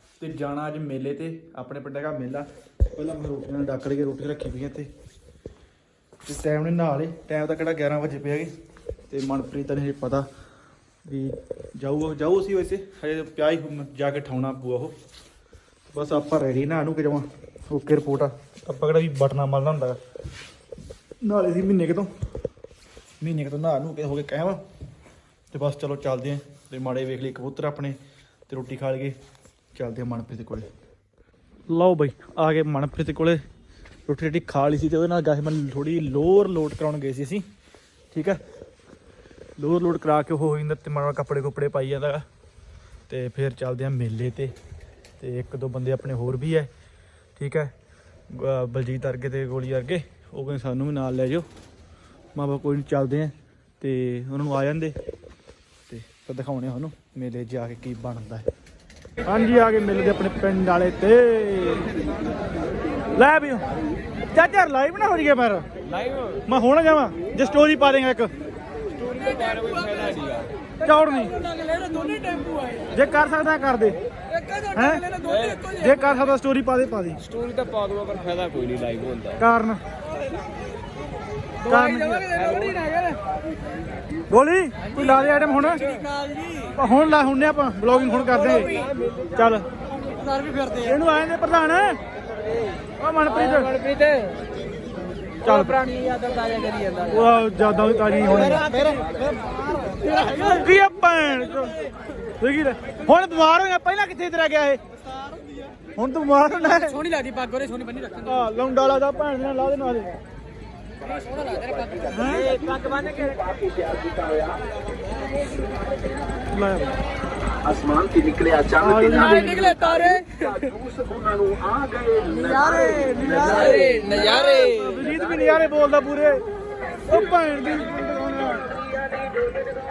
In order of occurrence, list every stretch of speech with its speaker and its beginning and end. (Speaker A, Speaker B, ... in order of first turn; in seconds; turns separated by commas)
Speaker A: 0.2-4.9, Speaker A: 6.2-8.5, Speaker A: 9.1-10.3, Speaker A: 11.1-14.9, Speaker A: 15.9-20.0, Speaker A: 21.2-22.1, Speaker A: 23.2-24.6, Speaker A: 25.5-29.1, Speaker A: 29.7-30.7, Speaker A: 31.7-33.4, Speaker A: 34.0-37.5, Speaker A: 38.1-38.4, Speaker A: 39.6-42.2, Speaker A: 43.1-44.5, Speaker A: 45.2-46.7, Speaker A: 47.4-47.7, Speaker A: 48.3-51.5, Speaker A: 52.3-55.0, Speaker A: 55.9-58.5, Speaker A: 59.2-61.8, Speaker A: 63.1-63.6, Speaker A: 64.3-65.6, Speaker B: 65.8-66.4, Speaker A: 66.5-68.3, Speaker B: 69.0-70.5, Speaker C: 69.0-70.2, Speaker A: 70.8-71.4, Speaker C: 70.9-72.9, Speaker A: 72.9-74.0, Speaker C: 74.3-76.1, Speaker A: 74.7-75.0, Speaker B: 75.2-75.7, Speaker A: 75.7-77.2, Speaker B: 77.2-79.4, Speaker A: 79.4-79.8, Speaker C: 81.6-83.2, Speaker A: 81.6-82.3, Speaker B: 82.3-82.8, Speaker A: 84.3-85.8, Speaker C: 84.9-86.7, Speaker A: 86.8-88.8, Speaker B: 88.4-89.5, Speaker A: 89.3-89.7, Speaker C: 90.2-91.0, Speaker A: 90.8-92.0, Speaker A: 93.0-93.7, Speaker C: 93.2-94.5, Speaker A: 95.4-95.9, Speaker C: 95.5-97.5, Speaker A: 97.1-98.7, Speaker C: 98.3-100.6, Speaker B: 98.7-99.4, Speaker A: 100.2-101.7, Speaker A: 102.4-104.8, Speaker A: 106.0-107.0, Speaker C: 106.6-108.5, Speaker A: 108.2-110.1, Speaker C: 111.0-113.5, Speaker A: 112.1-112.6, Speaker B: 112.6-113.3, Speaker D: 113.6-114.5, Speaker A: 116.5-117.0, Speaker D: 117.7-118.7, Speaker A: 118.7-119.9, Speaker C: 119.2-120.9, Speaker D: 120.9-122.2, Speaker C: 122.1-125.1, Speaker A: 122.9-126.4, Speaker A: 127.0-128.7